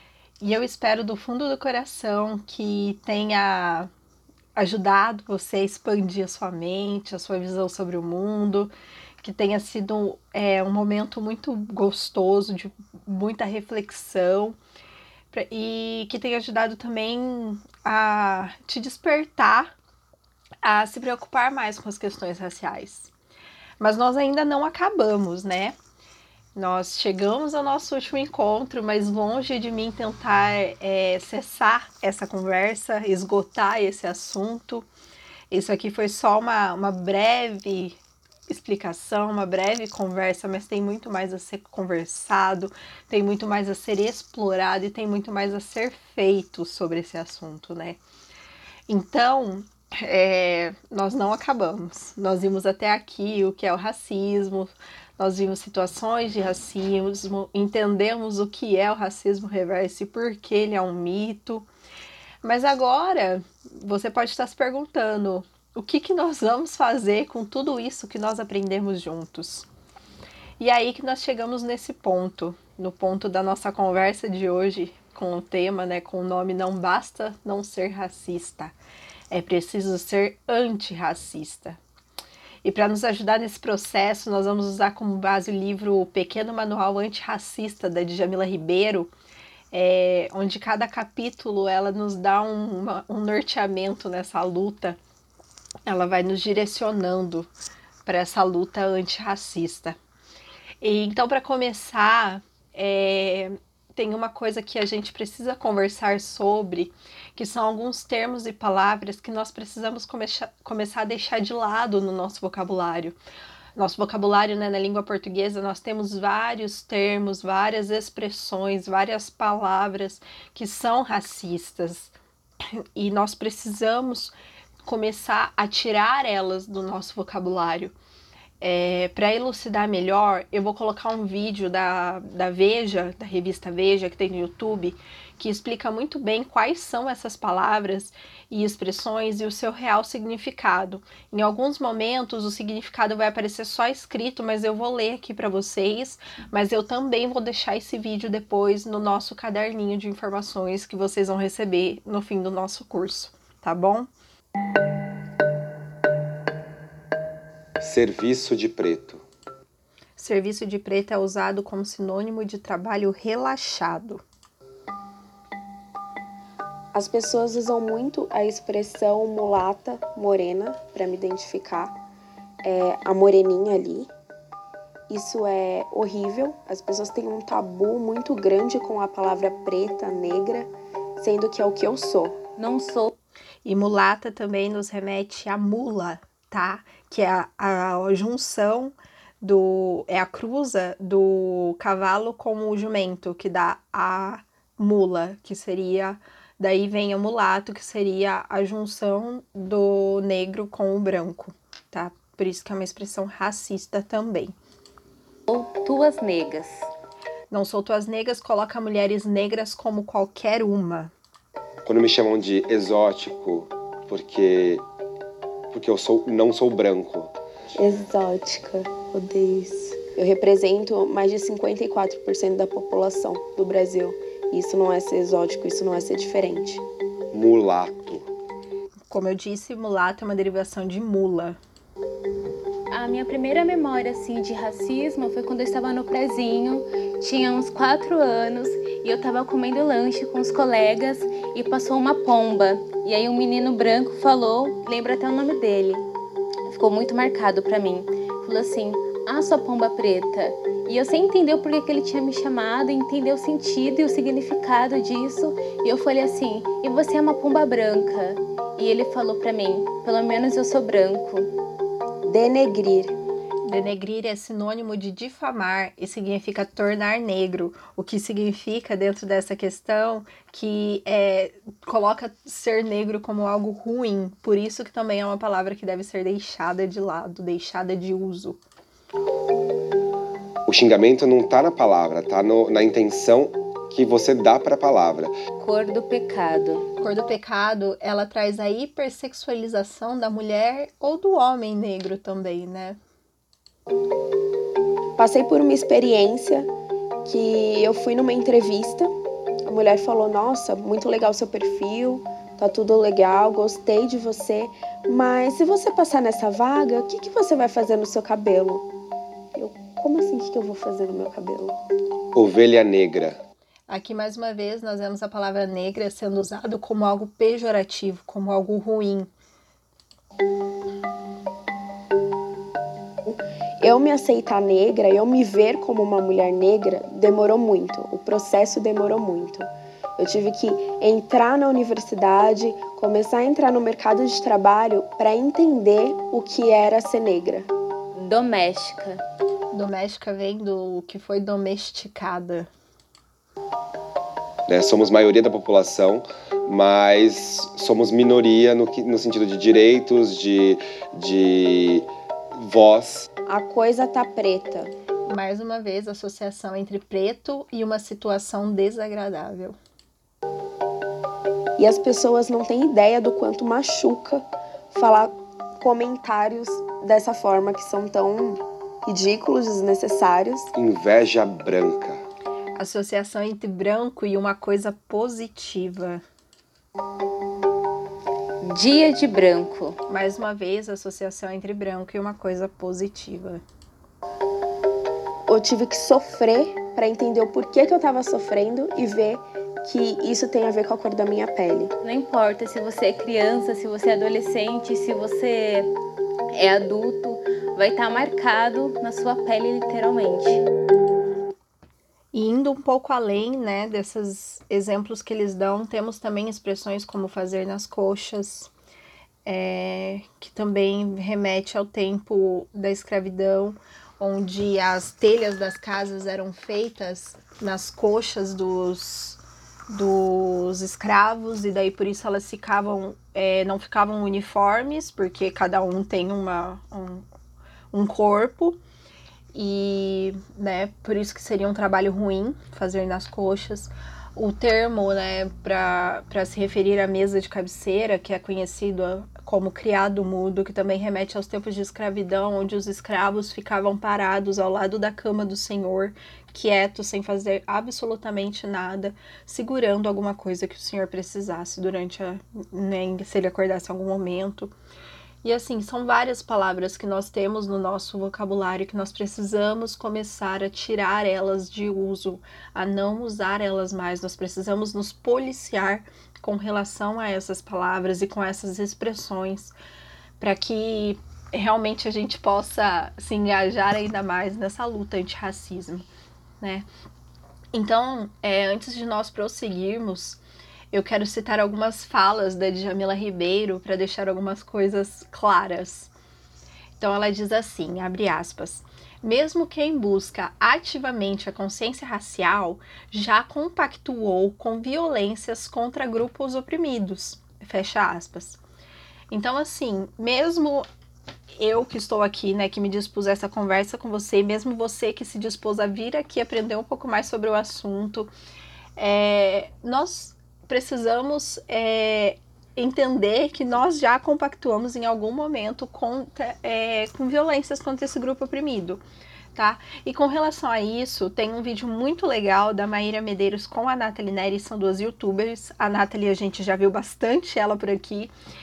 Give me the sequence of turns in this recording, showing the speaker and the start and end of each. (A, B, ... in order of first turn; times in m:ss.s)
0:00.4-0:03.9 A
0:04.6-0:14.6 A
0:15.3-0:19.7 A
0:20.6-0:23.1 A
0:23.8-0:25.8 A
0:26.5-0:34.9 A
0:35.5-0:38.0 A
0:38.5-0:48.0 A
0:48.9-1:01.7 A
1:02.4-1:09.7 A
1:10.6-1:18.7 A
1:19.3-1:21.8 A
1:22.6-1:29.1 A
1:29.7-1:35.0 A
1:35.9-1:37.5 A
1:38.0-1:40.0 A
1:40.8-1:53.2 A
1:53.8-2:02.1 A
2:03.0-2:04.3 A
2:04.8-2:07.9 A
2:08.6-2:34.1 A
2:37.8-2:39.2 B
2:40.2-2:44.2 A
2:46.9-2:52.0 C
2:52.6-2:54.1 C
2:55.1-3:02.4 C
3:02.6-3:03.1 D
3:03.6-3:24.5 A
3:25.5-3:26.8 D
3:27.5-3:31.1 A
3:31.8-3:34.8 B
3:35.7-3:37.3 B
3:37.8-3:46.8 C
3:47.3-3:48.3 B
3:49.1-3:51.6 A
3:52.9-4:06.1 D
4:06.7-4:21.5 D
4:22.2-4:23.1 C
4:23.6-4:38.6 A
4:40.6-4:45.3 B
4:45.6-4:46.8 D
4:47.0-4:53.0 A
4:55.2-4:56.7 C
4:57.2-4:59.1 C
4:59.6-5:08.9 C
5:09.6-5:11.8 C
5:12.3-5:13.4 B
5:13.9-5:19.3 A
5:23.3-5:37.7 C
5:38.2-5:39.2 D
5:39.7-5:42.7 A
5:44.7-5:53.3 B
5:53.4-5:54.9 C
5:55.3-5:59.8 A
6:01.8-6:10.7 C
6:10.8-6:12.2 B
6:12.8-6:16.2 A
6:18.6-6:20.0 D
6:20.1-6:23.6 A
6:25.5-6:31.9 C
6:32.0-6:35.9 D
6:36.6-6:40.6 D
6:42.3-6:48.7 A
6:49.4-7:07.2 A
7:07.9-7:08.8 A
7:09.5-7:34.7 A
7:35.4-7:49.7 A
7:50.4-7:56.0 A
7:56.6-7:56.9 A
7:57.7-8:00.4 A
8:00.9-8:06.1 A
8:07.0-8:18.6 A
8:19.3-8:20.8 A
8:21.6-8:28.3 A
8:29.0-8:39.0 A
8:39.6-8:48.3 A